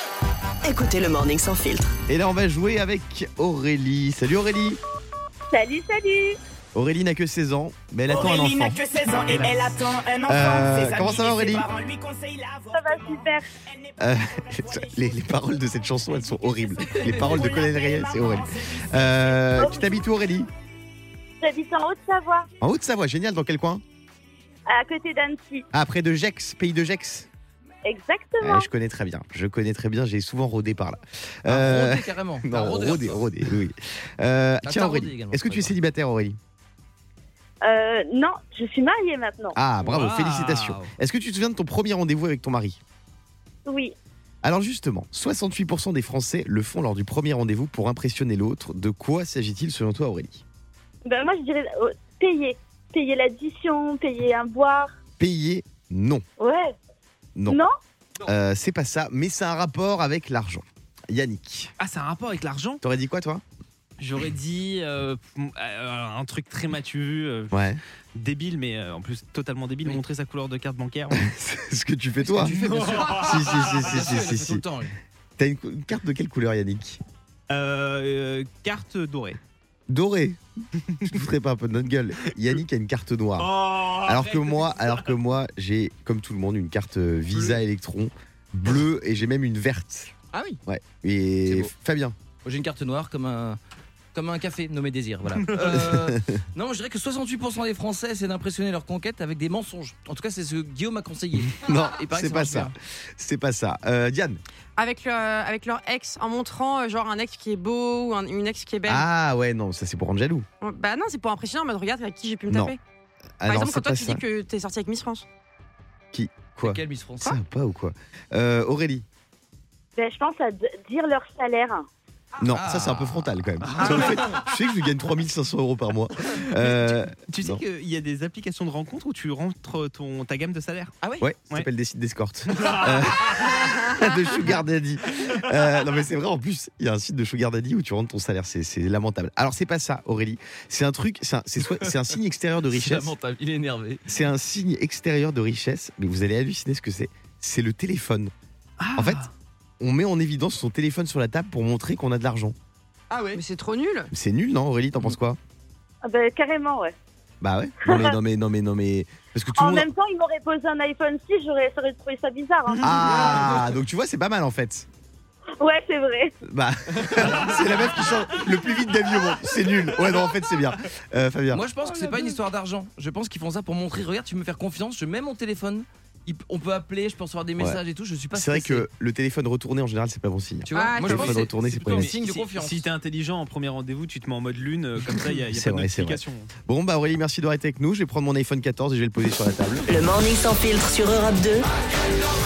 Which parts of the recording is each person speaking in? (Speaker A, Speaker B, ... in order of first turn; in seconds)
Speaker A: 0.6-1.9, 189.9-191.6
Speaker B: 2.1-4.8, 6.7-9.7, 10.3-11.7, 14.0-20.5, 22.6-23.8, 25.7-27.3, 28.4-36.4, 39.5-42.8, 44.4-50.4, 55.2-56.2, 57.4-57.6, 58.2-61.7, 62.8-63.4, 67.5-67.8, 71.1-74.6, 75.4-77.0, 79.9-80.4, 81.0-90.1, 90.7-92.1, 95.6-96.3, 101.5-104.4, 108.8-110.5, 112.5-112.7, 113.4-114.2, 116.1-119.0, 122.4-127.6, 131.2-143.1, 144.1-148.3, 148.9-149.3, 149.8-152.5, 154.1-155.4, 157.4-159.9, 162.8-164.9, 166.4-171.6, 178.3-182.1, 185.5-189.8
Speaker C: 5.5-6.4, 12.7-13.5, 19.6-19.9, 21.4-22.5, 24.7-25.6, 27.8-28.7, 37.6-39.5, 43.6-43.9, 51.0-54.9, 56.4-56.7, 120.0-121.8, 156.0-156.9, 157.8-158.1, 159.6-162.9, 165.6-166.3
Speaker D: 8.1-15.1, 16.9-19.4
Speaker E: 31.4-33.2, 34.6-35.7, 72.2-74.9, 90.3-90.6, 91.4-91.7, 92.4-93.6, 94.1-102.7, 116.6-117.4, 122.5-123.3, 141.7-141.9, 142.6-144.0, 153.1-153.4, 163.1-163.6, 171.5-178.8, 180.7-182.9
Speaker F: 39.8-40.8, 61.8-62.8, 64.0-67.6, 68.1-71.2, 72.6-73.1, 77.5-79.4, 80.9-81.2, 83.4-84.5, 123.6-124.2, 126.5-130.9, 132.5-133.0, 148.8-149.3, 162.9-163.4, 181.1-186.5
Speaker G: 104.8-109.1, 110.6-112.8, 113.5-115.2, 153.3-154.1, 180.7-181.2